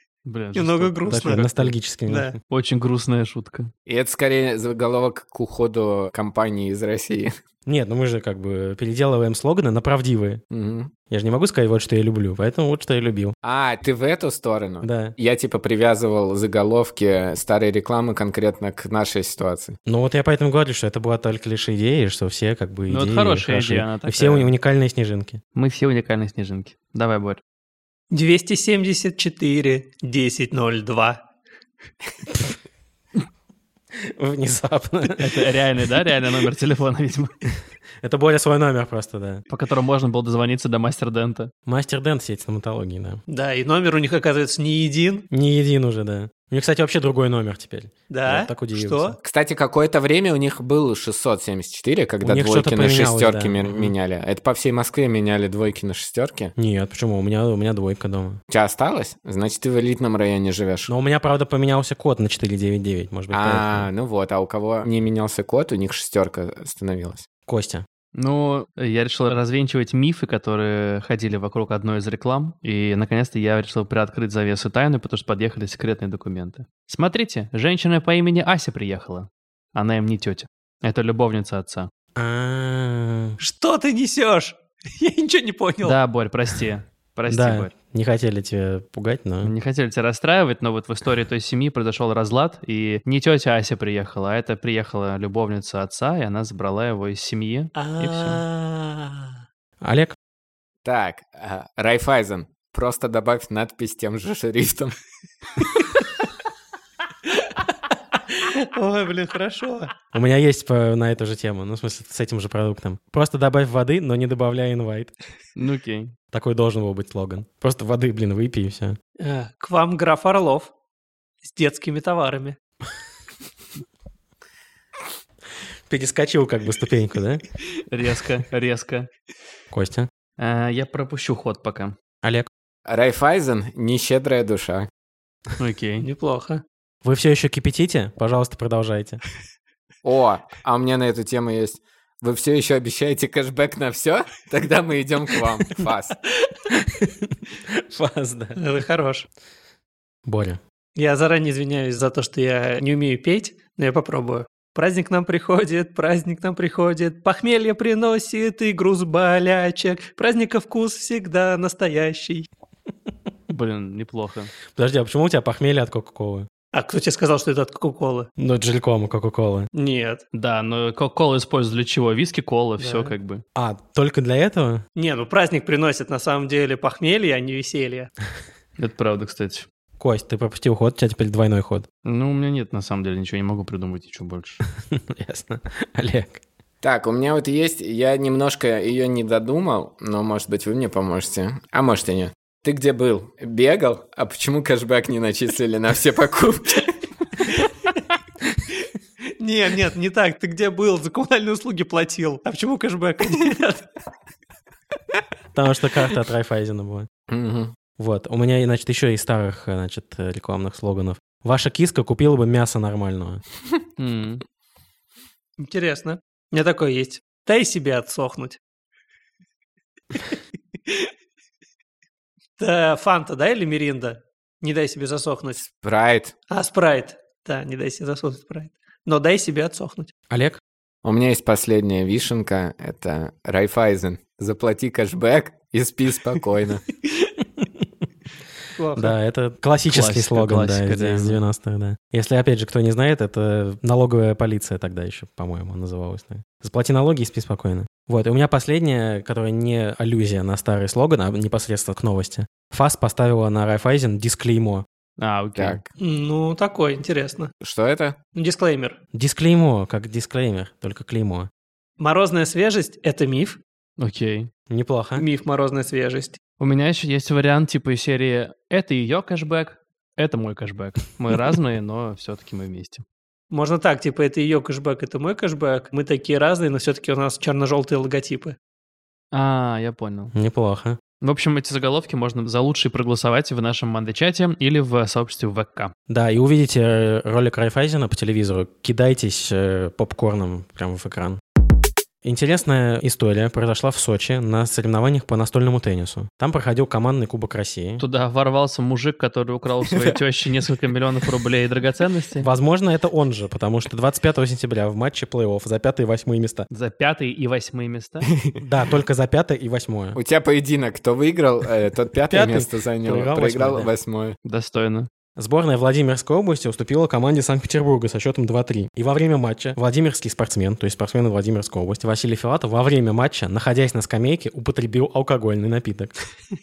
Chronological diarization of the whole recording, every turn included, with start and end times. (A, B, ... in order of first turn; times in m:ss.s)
0:00.2-0:01.7 A
0:00.5-0:01.5 B
0:01.1-0:02.4 C
0:02.1-0:02.4 B
0:02.5-0:03.7 A
0:03.9-0:07.3 D
0:07.6-0:10.4 C
0:10.5-0:10.9 D
0:11.1-0:13.3 C
0:13.4-0:19.8 D
0:14.8-0:15.1 C
0:19.8-0:25.4 C
0:22.9-0:24.5 A
0:25.5-0:27.4 A
0:28.1-0:31.2 B
0:34.0-0:35.4 C
0:35.1-0:37.3 A
0:38.0-0:39.4 C
0:39.5-0:41.5 A
0:41.7-0:43.2 C
0:43.3-0:45.2 B
0:45.3-0:49.2 C
0:48.1-0:49.2 B
0:49.2-0:56.5 D
0:52.2-0:53.9 C
0:56.6-0:58.4 C
0:58.5-1:00.9 D
1:00.9-1:03.9 C
1:03.3-1:07.2 D
1:07.5-1:07.8 C
1:08.1-1:21.9 A
1:22.2-1:23.4 C
1:23.4-1:26.0 B
1:25.8-1:27.7 A
1:27.2-1:29.5 C
1:29.4-1:38.4 A
1:37.8-1:39.3 B
1:39.8-1:40.2 C
1:40.8-1:44.9 D
1:48.3-1:49.9 B
1:50.1-1:55.1 C
1:55.6-1:56.1 A
1:56.3-1:59.0 C
1:59.2-2:00.7 B
2:01.4-2:02.6 B
2:05.9-2:07.4 C
2:07.9-2:09.1 A
2:09.7-2:10.1 C
2:10.4-2:11.9 A
2:12.2-2:12.5 C
2:12.8-2:14.9 D
2:15.6-2:16.1 A
2:16.0-2:16.6 B
2:17.0-2:19.2 C
2:20.0-2:26.2 D
2:26.7-2:28.6 C
2:28.6-2:29.2 B
2:30.2-2:30.6 C
2:30.9-2:42.5 B
2:43.5-2:44.5 A
2:44.7-2:46.5 C
2:46.7-2:48.3 B
2:48.4-2:49.7 C
2:49.7-2:50.2 B
2:50.3-2:53.4 A
2:52.8-2:53.1 B
2:53.5-2:54.8 C
2:55.0-2:58.1 B
2:58.8-2:59.6 A
3:00.0-3:01.9 C
3:02.0-3:04.6 A
3:04.9-3:06.4 C
3:06.8-3:16.9 D
3:19.4-3:23.8 B
3:25.5-3:27.1 C
3:27.3-3:27.7 D
3:28.0-3:33.4 C
3:34.0-3:34.4 A
3:35.6-3:38.6 B
3:42.6-3:45.6 B
3:45.8-3:46.3 D
3:46.5-3:50.1 B
3:50.3-3:50.6 C
3:51.0-3:56.8 D
3:58.8-3:59.1 B
3:58.9-4:14.8 C
3:59.9-4:01.4 A
4:15.2-4:15.8 A
4:16.0-4:17.5 B
4:17.6-4:18.2 D
4:18.3-4:19.0 B
4:19.1-4:21.5 C
4:22.0-4:23.6 B
4:24.0-4:24.5 A
4:24.7-4:25.2 C
4:25.2-4:26.4 B
4:26.6-4:33.0 A
4:33.5-4:38.6 B
4:39.3-4:40.3 A
4:40.3-4:41.0 C
4:41.2-4:45.9 A
4:46.1-4:51.4 C
4:52.2-4:58.0 C
4:58.0-5:02.5 A
5:02.4-5:06.7 C
5:06.7-5:08.3 A
5:08.6-5:10.2 C
5:10.1-5:14.4 D
5:12.3-5:13.9 C
5:14.4-5:15.1 A
5:15.4-5:26.1 C